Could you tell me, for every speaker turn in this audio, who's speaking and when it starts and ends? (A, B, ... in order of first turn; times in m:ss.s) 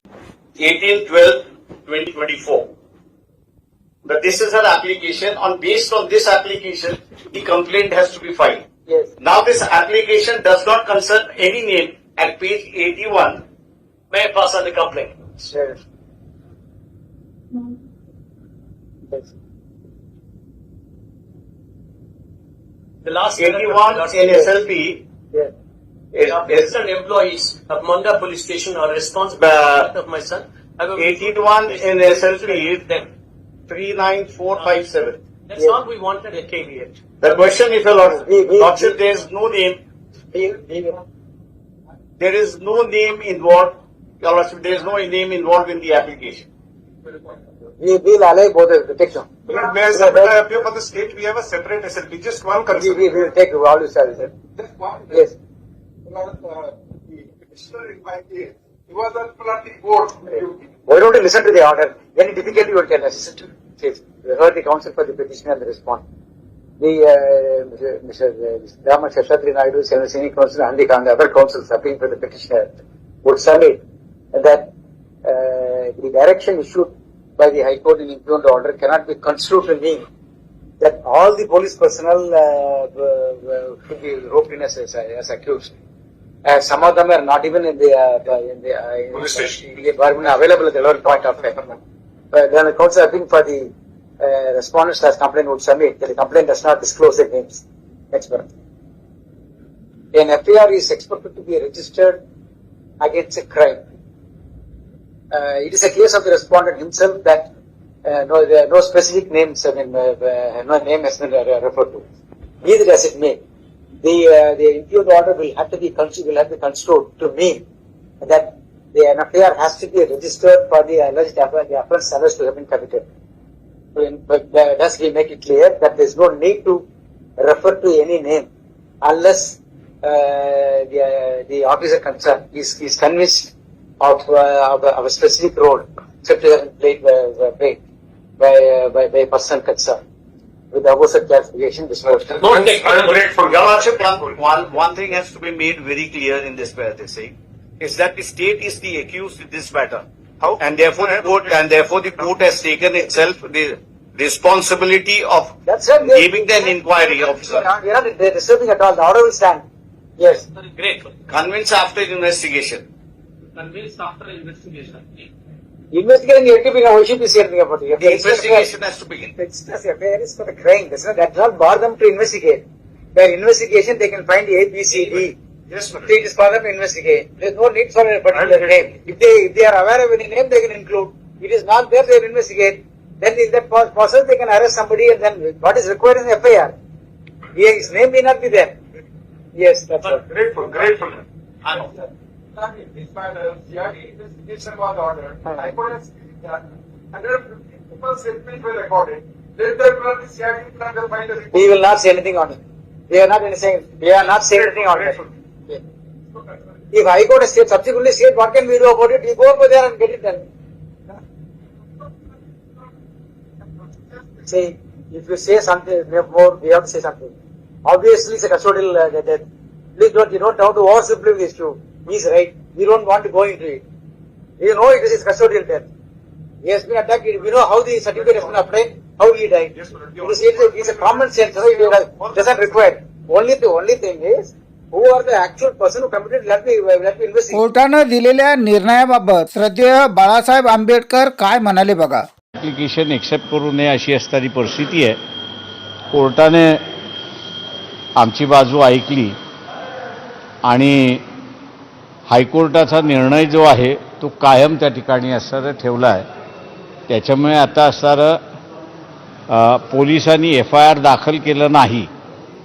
0:00.6-0:02.7 A
0:04.0-0:08.6 A
0:08.9-0:09.1 B
0:09.2-0:13.4 A
0:14.1-0:15.5 C
0:15.5-0:15.8 B
0:23.0-0:24.5 C
0:23.4-0:25.0 A
0:26.1-0:26.8 A
0:26.2-0:33.1 C
0:29.4-0:29.9 A
0:31.0-0:32.8 A
0:33.7-0:35.2 A
0:34.5-0:34.8 C
0:35.5-0:37.0 C
0:37.2-0:39.8 A
0:38.0-0:39.0 B
0:40.3-0:41.0 B
0:42.2-0:46.5 A
0:47.8-0:50.4 B
0:49.5-0:53.2 D
0:52.7-0:54.3 B
0:54.6-0:55.2 D
0:56.1-1:00.5 D
1:00.3-1:06.0 B
1:06.8-1:13.8 B
1:14.3-1:14.7 B
1:15.2-1:20.0 B
1:20.8-1:25.8 B
1:26.4-1:31.8 B
1:32.3-1:38.5 B
1:40.1-1:42.2 B
1:43.0-1:43.8 B
1:45.3-1:47.5 B
1:48.0-1:52.0 B
1:52.6-1:53.4 B
1:54.0-1:57.6 B
1:58.2-2:03.0 B
2:03.9-2:06.8 B
2:07.4-2:08.5 B
2:09.0-2:17.8 B
2:18.4-2:20.0 B
2:20.7-2:22.4 B
2:22.4-2:23.2 C
2:22.4-2:23.2 D
2:22.6-2:30.0 A
2:30.4-2:31.5 D
2:30.6-2:37.6 A
2:35.7-2:39.6 B
2:40.2-2:40.5 B
2:40.6-2:41.1 C
2:41.3-2:42.9 A
2:43.6-2:45.0 C
2:45.9-2:48.7 B
2:48.0-2:49.3 A
2:49.4-2:52.6 B
2:53.1-2:55.4 B
2:56.0-3:06.7 B
3:07.6-3:08.8 B
3:09.6-3:10.2 B
3:10.3-3:11.2 D
3:12.6-3:21.6 D
3:15.5-3:15.7 B
3:21.5-3:25.8 B
3:24.6-3:25.2 D
3:26.9-3:30.4 B
3:34.4-3:43.8 B
3:44.6-3:45.9 B
3:46.6-3:57.6 B
3:49.9-3:52.7 D
3:57.5-4:02.3 E
4:02.6-4:05.2 F
4:06.1-4:06.8 F
4:08.2-4:09.4 F
4:10.6-4:11.2 F
4:12.3-4:16.3 F
4:17.1-4:18.4 F
4:19.5-4:22.1 F